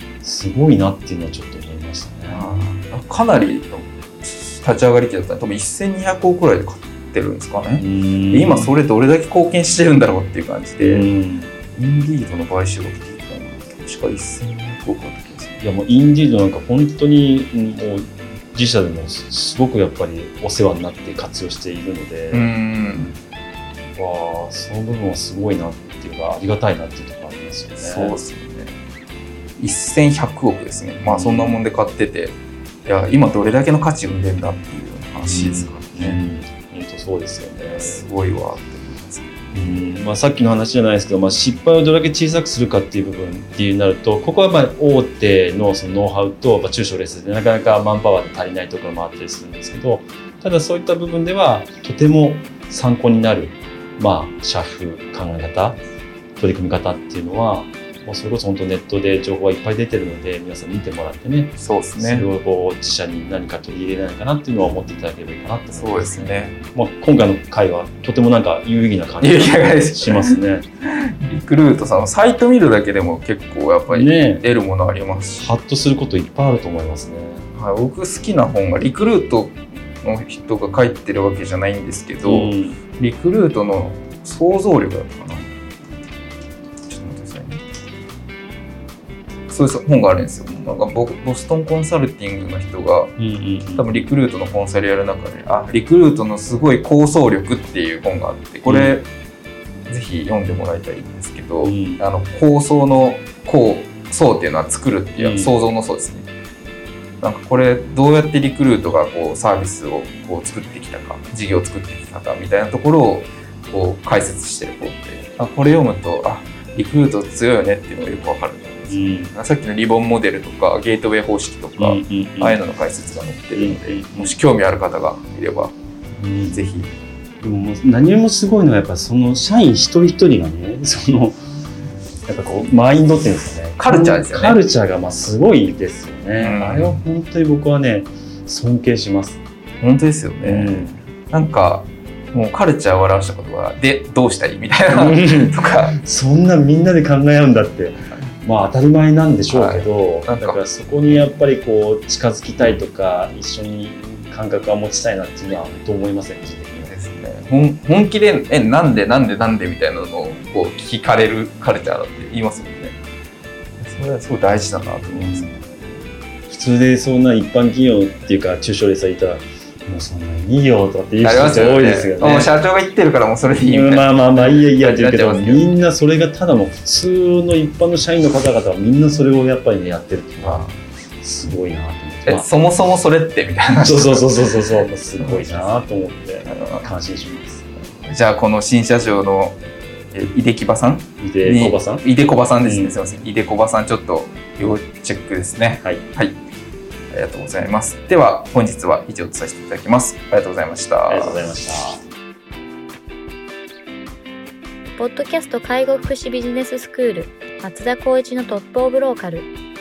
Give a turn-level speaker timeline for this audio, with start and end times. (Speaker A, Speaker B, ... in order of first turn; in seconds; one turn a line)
Speaker A: 0.2-2.5
Speaker B: 2.3-11.1
Speaker A: 7.8-8.8
Speaker A: 10.8-11.5
Speaker B: 11.7-15.6
Speaker A: 15.6-22.5
Speaker B: 22.3-23.2
Speaker A: 23.9-28.2
Speaker B: 27.8-28.8
Speaker B: 29.6-36.2
Speaker A: 31.1-31.6
Speaker A: 35.2-38.1
Speaker B: 37.7-39.4
Speaker A: 39.5-55.8
Speaker A: 56.4-70.7
Speaker B: 61.6-62.3
Speaker B: 65.7-66.6
Speaker B: 69.2-70.4
Speaker B: 71.0-75.5
Speaker A: 73.9-74.5
Speaker A: 75.4-77.5
Speaker B: 77.5-85.5
Speaker A: 82.2-82.8
Speaker B: 86.9-87.6
Speaker B: 89.5-93.1
Speaker A: 93.2-93.9
Speaker B: 93.7-99.1
Speaker A: 98.7-99.0
Speaker B: 99.9-106.3
Speaker A: 101.6-102.0
Speaker A: 105.2-105.6
Speaker B: 107.2-125.7
Speaker A: 118.9-119.3
Speaker A: 121.8-122.6
Speaker A: 123.5-124.4
Speaker A: 126.2-126.7
Speaker B: 126.5-126.9
Speaker A: 127.4-131.4
Speaker A: 132.3-139.4
Speaker B: 133.8-134.6
Speaker B: 136.4-137.0
Speaker B: 139.8-145.9
Speaker A: 140.4-141.0
Speaker A: 144.9-156.9
Speaker B: 149.5-151.4
Speaker B: 156.8-163.0
Speaker B: 163.8-165.6
Speaker A: 165.1-165.6
Speaker A: 166.5-172.5
Speaker B: 171.2-175.7
Speaker A: 173.7-180.7
Speaker B: 180.4-180.8
Speaker A: 181.2-182.5
Speaker B: 182.3-185.8
Speaker A: 183.8-187.7
Speaker B: 186.5-186.9
Speaker B: 188.0-189.6
Speaker B: 190.1-196.4
Speaker A: 191.2-192.1
Speaker A: 192.6-193.0
Speaker B: 197.1-201.5
Speaker A: 201.1-202.0
Speaker C: 205.0-209.5